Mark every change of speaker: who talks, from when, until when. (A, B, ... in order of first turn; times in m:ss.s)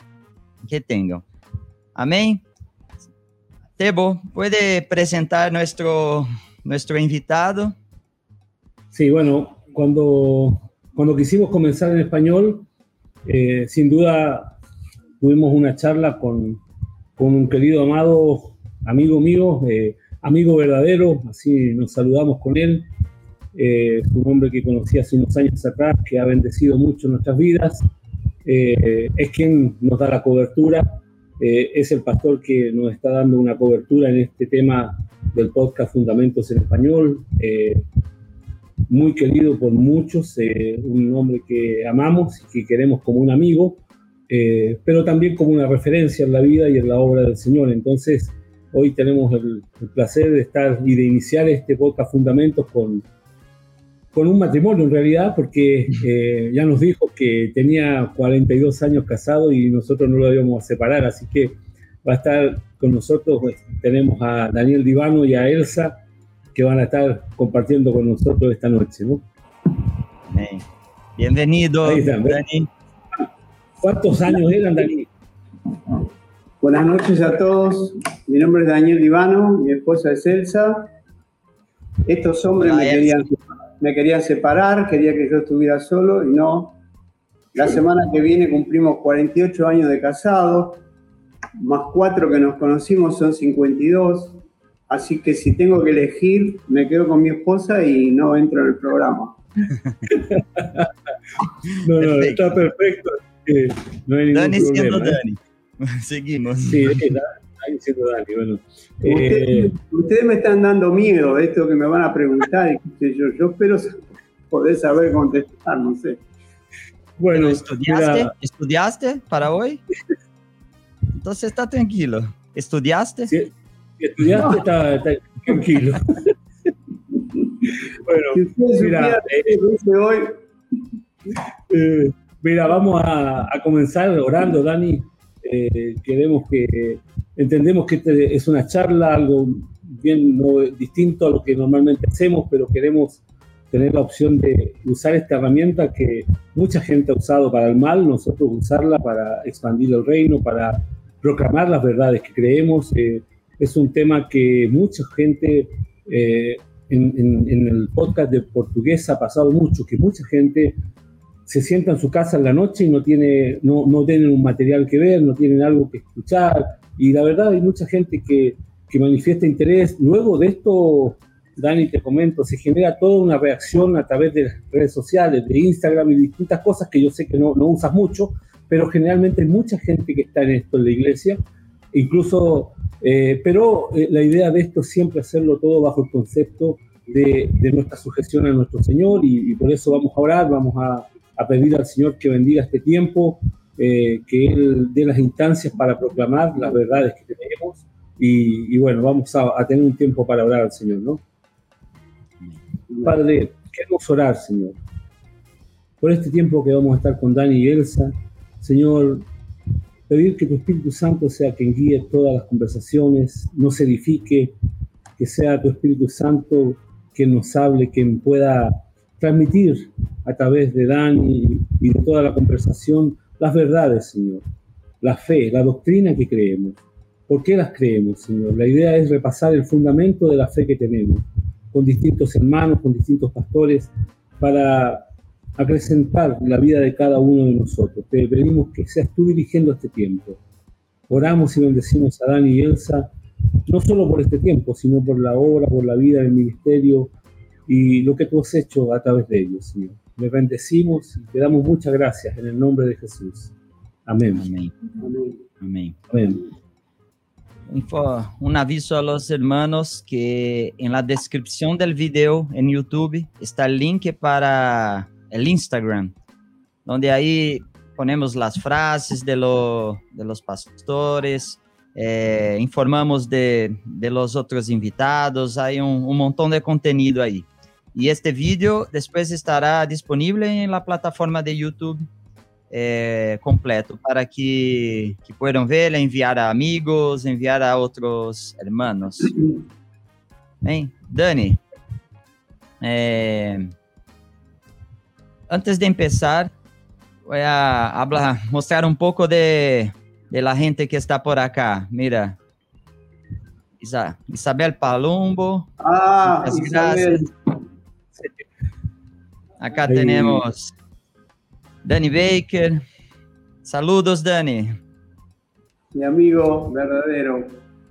0:00.6-0:01.2 A
0:01.9-0:02.4 A
0:03.8-0:07.8 A
0:08.9-0:12.6 B
0:13.2-0:14.5 B
0:15.2-0:16.6 B
0:17.2-0:22.9 B
0:23.6-0:27.8 B
0:28.4-0:37.8 B
0:38.9-0:53.0 B
0:54.1-1:06.0 B
1:06.5-1:09.2 B
1:10.3-1:10.6 A
1:11.2-1:12.7 A
1:11.8-1:12.4 B
1:13.8-1:15.1 B
1:16.6-1:20.9 C
1:22.1-1:26.8 C
1:22.6-1:23.3 A
1:27.6-1:30.8 C
1:31.6-1:39.4 C
1:40.1-1:40.9 B
1:41.8-1:45.2 B
1:42.0-1:42.6 A
1:44.3-1:47.1 A
1:46.6-1:49.7 B
1:49.0-1:56.2 C
1:57.2-1:58.3 B
1:57.3-1:59.8 A
2:01.2-2:03.3 A
2:03.3-2:06.3 B
2:08.0-2:09.6 B
2:08.3-2:10.4 C
2:11.7-2:40.7 B
2:41.5-3:01.4 B
3:01.9-3:21.2 B
3:22.9-3:23.2 C
3:23.0-3:24.8 B
3:26.0-3:29.2 B
3:30.1-3:34.6 B
3:35.2-3:44.4 B
3:45.0-3:55.1 B
3:55.6-4:00.4 B
4:01.1-4:03.1 B
4:03.6-4:07.1 B
4:07.7-4:13.5 B
4:14.1-4:14.5 B
4:14.3-4:14.7 A
4:15.0-4:15.4 C
4:15.6-4:16.0 A
4:16.1-4:16.4 B
4:17.7-4:26.1 A
4:26.9-4:42.1 A
4:42.7-4:49.3 A
4:50.6-4:51.6 A
4:52.8-4:53.7 A
4:55.5-4:56.5 A
4:57.3-5:02.4 A
5:03.8-5:05.7 A
5:05.8-5:07.3 C
5:06.2-5:07.3 A
5:09.6-5:10.7 A
5:09.8-5:10.4 B
5:11.8-5:12.8 A
5:13.6-5:14.8 A
5:15.9-5:17.6 C